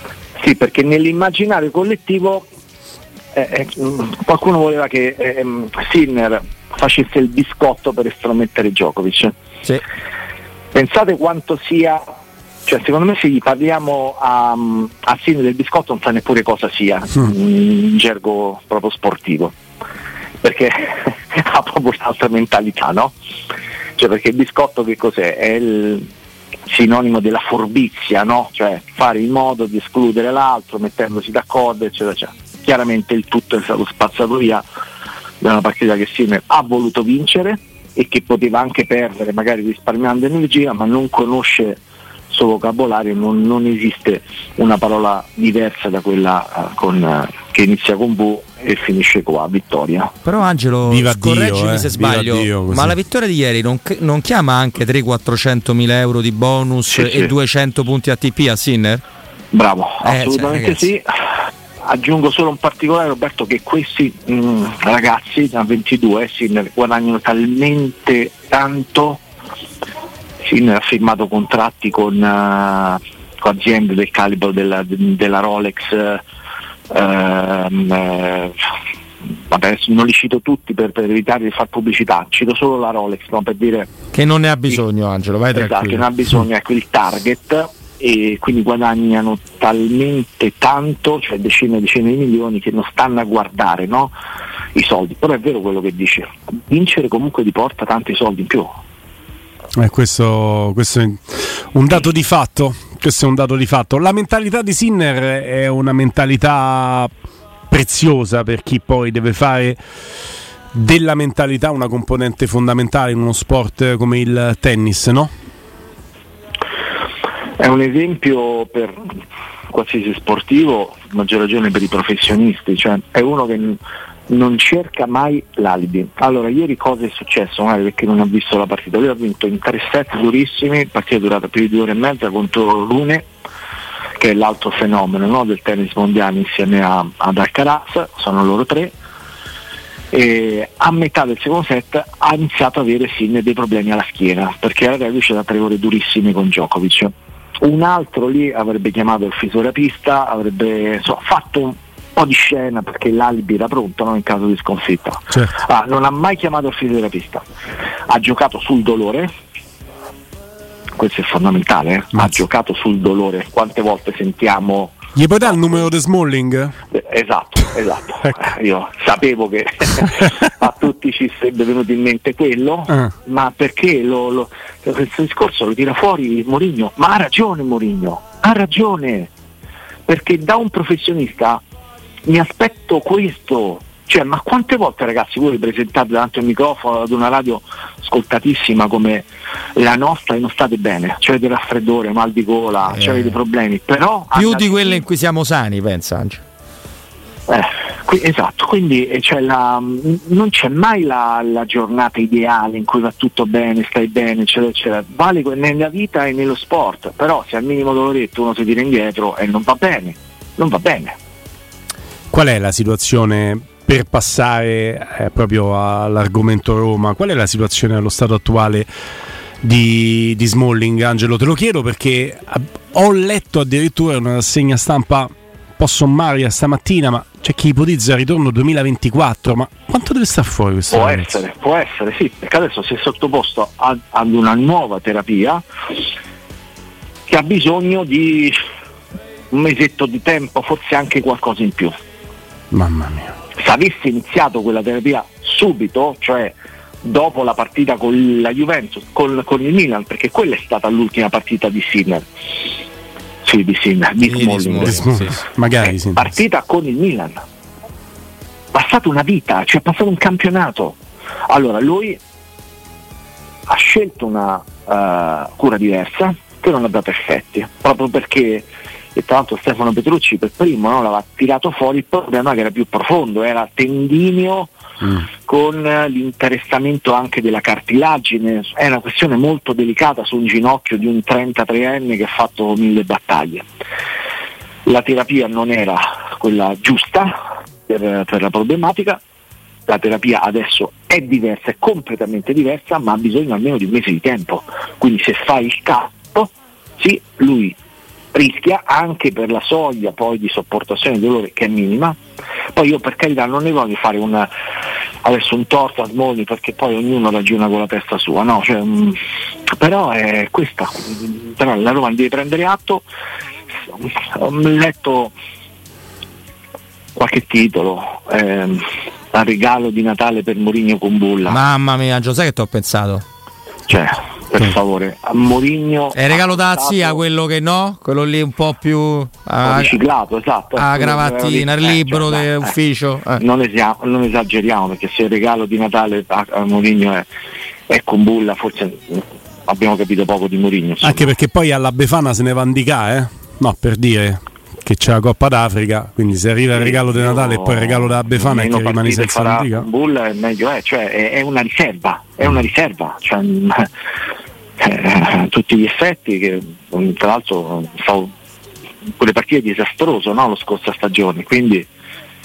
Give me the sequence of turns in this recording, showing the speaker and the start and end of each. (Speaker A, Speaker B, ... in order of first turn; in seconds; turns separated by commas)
Speaker A: 0.4-2.5, Speaker A: 3.3-9.3, Speaker A: 10.7-12.0, Speaker A: 12.7-19.5, Speaker A: 20.4-23.1, Speaker A: 24.0-26.1, Speaker A: 26.7-34.6, Speaker A: 35.4-50.1, Speaker B: 50.2-59.0, Speaker C: 50.9-53.0, Speaker A: 56.9-57.3, Speaker A: 59.5-61.1, Speaker B: 60.0-60.9, Speaker A: 61.9-69.2, Speaker A: 70.5-76.2, Speaker A: 76.9-78.6, Speaker A: 79.5-83.9, Speaker B: 84.1-86.4, Speaker A: 85.5-94.1, Speaker A: 94.8-98.7, Speaker C: 99.8-107.1, Speaker C: 107.7-109.8, Speaker C: 110.7-115.3, Speaker A: 117.6-119.0, Speaker A: 119.7-133.3, Speaker A: 134.2-138.9, Speaker A: 140.1-157.4, Speaker A: 158.1-159.3, Speaker A: 160.9-165.9, Speaker C: 165.1-166.8, Speaker A: 166.9-179.3, Speaker A: 180.1-181.6, Speaker A: 182.3-195.1, Speaker B: 192.9-193.4, Speaker B: 194.3-196.4, Speaker A: 197.5-211.2, Speaker C: 212.3-218.9, Speaker C: 219.6-231.4, Speaker A: 230.9-235.6, Speaker A: 237.3-238.6, Speaker A: 239.5-241.9, Speaker C: 242.7-243.3, Speaker A: 243.6-252.3, Speaker A: 253.4-255.0, Speaker B: 254.2-255.5, Speaker C: 254.8-256.3, Speaker A: 255.8-257.4, Speaker A: 258.7-261.0, Speaker A: 261.5-262.2, Speaker A: 263.7-274.7, Speaker C: 275.0-275.3, Speaker A: 275.4-283.6, Speaker A: 284.9-289.2, Speaker A: 289.9-297.8, Speaker A: 298.3-302.2, Speaker A: 302.8-304.5, Speaker A: 305.2-309.2, Speaker A: 309.7-313.1, Speaker A: 314.3-315.3, Speaker A: 317.1-321.6, Speaker B: 321.5-323.2, Speaker A: 323.9-327.2, Speaker B: 326.1-330.0, Speaker A: 329.6-332.7, Speaker B: 330.8-333.4, Speaker A: 333.4-337.2, Speaker A: 337.9-341.4, Speaker C: 341.0-349.9, Speaker A: 346.7-353.9, Speaker A: 354.8-358.3, Speaker A: 359.2-361.9